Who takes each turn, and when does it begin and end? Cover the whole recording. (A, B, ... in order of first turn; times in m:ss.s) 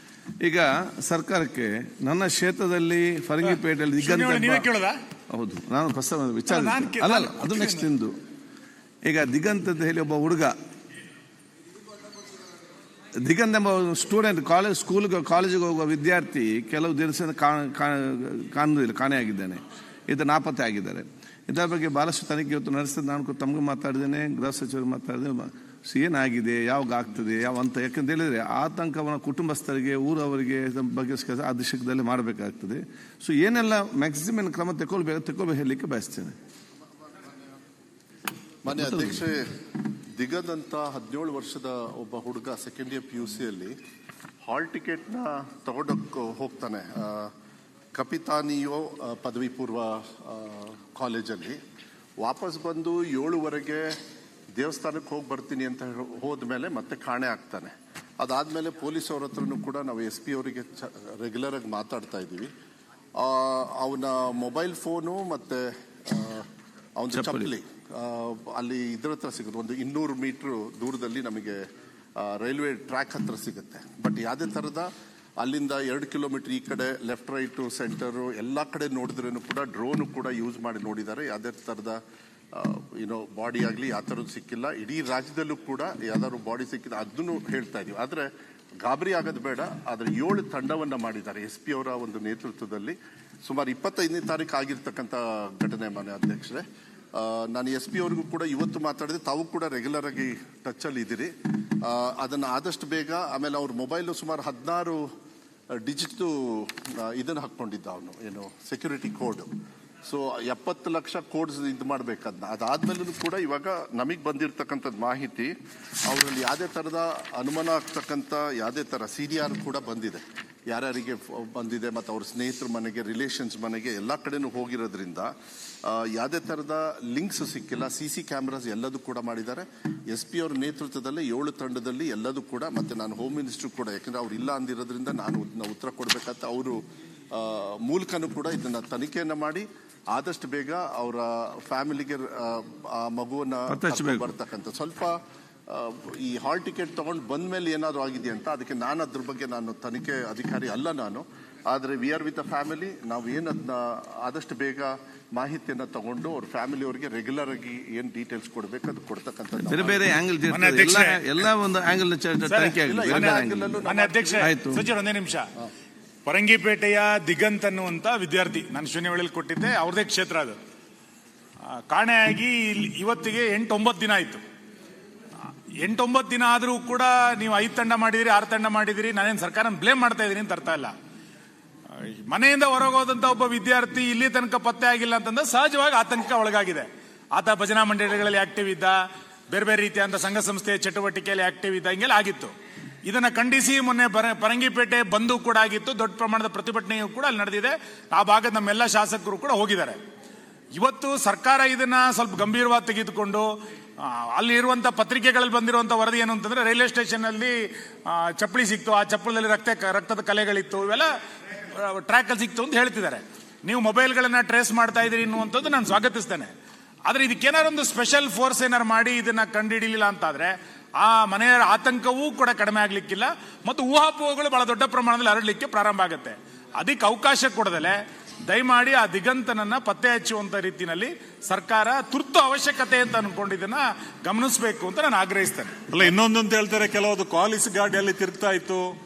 0:00.4-0:04.6 A
0:03.4-0:05.0 B
0:05.3-0:08.1 A
0:06.5-0:07.9 B
0:09.0-0:10.6 A
0:13.2-0:36.4 A
0:38.6-0:39.4 C
0:38.8-0:39.2 A
0:40.2-0:43.7 C
0:44.4-0:47.3 C
0:47.9-0:51.6 C
0:52.2-0:54.0 C
0:54.6-1:02.5 C
1:03.2-1:11.6 C
1:07.1-1:07.5 A
1:12.2-1:22.0 C
1:22.5-1:28.3 C
1:28.8-1:36.6 C
1:37.2-1:45.0 C
1:45.7-1:49.5 C
1:50.0-1:55.5 C
1:56.1-2:05.3 C
2:05.8-2:16.8 C
2:17.3-2:25.2 C
2:23.7-2:24.3 A
2:25.7-2:40.2 C
2:39.6-2:43.8 A
2:40.5-2:41.2 B
2:42.4-2:45.5 B
2:42.8-2:44.5 C
2:44.4-2:44.8 A
2:46.3-2:50.6 B
2:51.7-2:54.4 B
2:55.4-3:00.9 B
3:01.9-3:09.0 B
3:09.5-3:12.5 B
3:13.0-3:20.0 B
3:20.7-3:31.1 B
3:31.6-3:36.5 B
3:37.0-3:55.9 B
3:55.9-3:58.9 D